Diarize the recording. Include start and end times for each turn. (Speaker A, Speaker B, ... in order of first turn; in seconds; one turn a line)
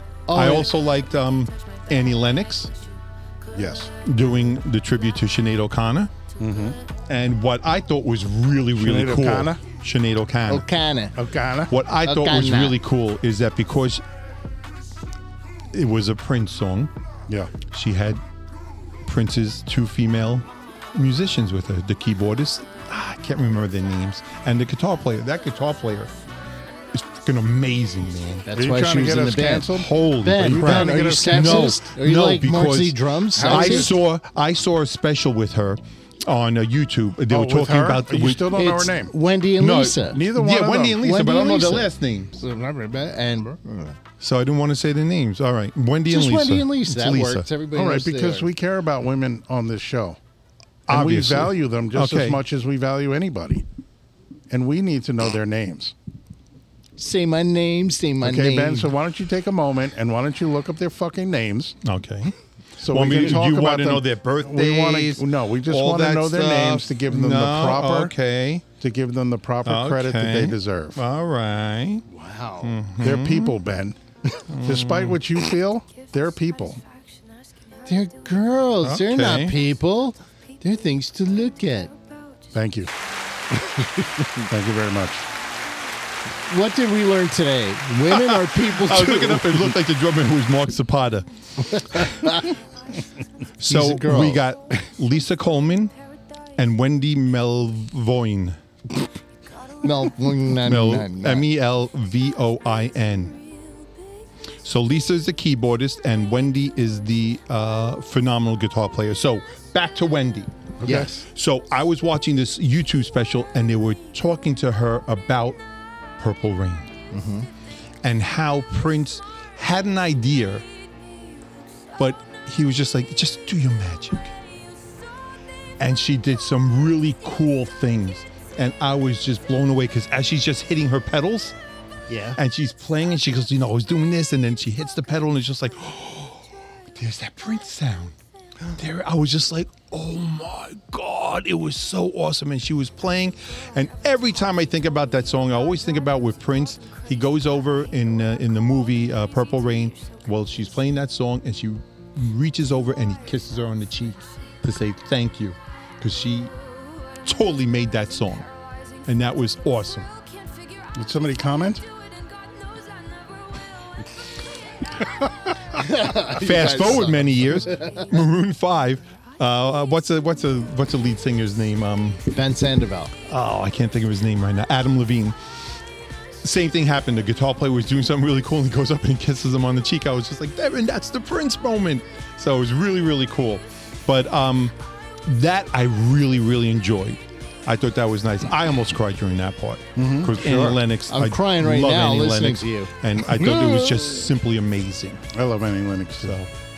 Speaker A: 0.3-0.7
Speaker B: 0.3-2.7
Speaker C: 3.5-3.9
Speaker B: 4.0-6.1
Speaker C: 6.4-6.8
Speaker B: 7.1-10.7
Speaker C: 8.8-9.6
Speaker A: 10.5-11.2
Speaker C: 11.2-11.7
Speaker B: 11.7-14.0
Speaker A: 12.0-12.8
Speaker B: 15.7-16.9
Speaker C: 17.3-17.5
Speaker B: 17.7-18.2
Speaker B: 19.0-26.1
Speaker B: 26.9-28.5
Speaker A: 28.5-29.7
Speaker C: 28.5-31.8
Speaker B: 29.7-38.5
Speaker A: 30.2-34.0
Speaker C: 33.4-34.0
Speaker C: 37.3-39.1
Speaker A: 38.5-40.3
Speaker B: 39.6-42.4
Speaker C: 40.1-41.0
Speaker A: 41.0-44.0
Speaker B: 44.2-47.5
Speaker A: 46.1-48.5
Speaker C: 47.7-50.2
Speaker B: 50.9-52.4
Speaker C: 50.9-53.6
Speaker C: 54.5-56.0
Speaker A: 57.0-58.9
Speaker C: 58.2-61.8
Speaker B: 61.8-62.3
Speaker C: 62.8-68.1
Speaker B: 62.9-68.7
Speaker C: 68.8-71.0
Speaker B: 69.7-72.0
Speaker A: 72.1-72.8
Speaker B: 72.6-73.5
Speaker C: 73.0-74.0
Speaker B: 74.5-75.2
Speaker C: 74.6-76.8
Speaker A: 77.9-81.9
Speaker B: 78.8-79.6
Speaker C: 82.5-82.9
Speaker C: 84.5-85.3
Speaker A: 86.5-89.8
Speaker B: 88.1-92.3
Speaker A: 91.7-92.5
Speaker B: 93.6-95.9
Speaker A: 93.7-94.4
Speaker B: 96.6-98.6
Speaker A: 99.8-101.5
Speaker B: 100.6-103.4
Speaker B: 104.6-115.6
Speaker C: 110.8-111.2
Speaker A: 110.8-111.1
Speaker B: 116.2-116.9
Speaker A: 117.1-117.5
Speaker B: 118.0-120.7
Speaker B: 122.0-124.3
Speaker B: 125.8-131.6
Speaker A: 132.1-132.4
Speaker B: 132.4-138.2
Speaker B: 138.7-156.5
Speaker B: 157.2-158.5
Speaker B: 159.1-160.1
Speaker C: 161.0-161.8
Speaker A: 165.8-168.1
Speaker B: 166.1-172.2
Speaker A: 172.3-173.1
Speaker B: 173.2-175.4
Speaker B: 176.4-195.2
Speaker C: 190.0-190.8
Speaker A: 191.1-192.9
Speaker C: 195.3-196.3
Speaker B: 196.2-196.5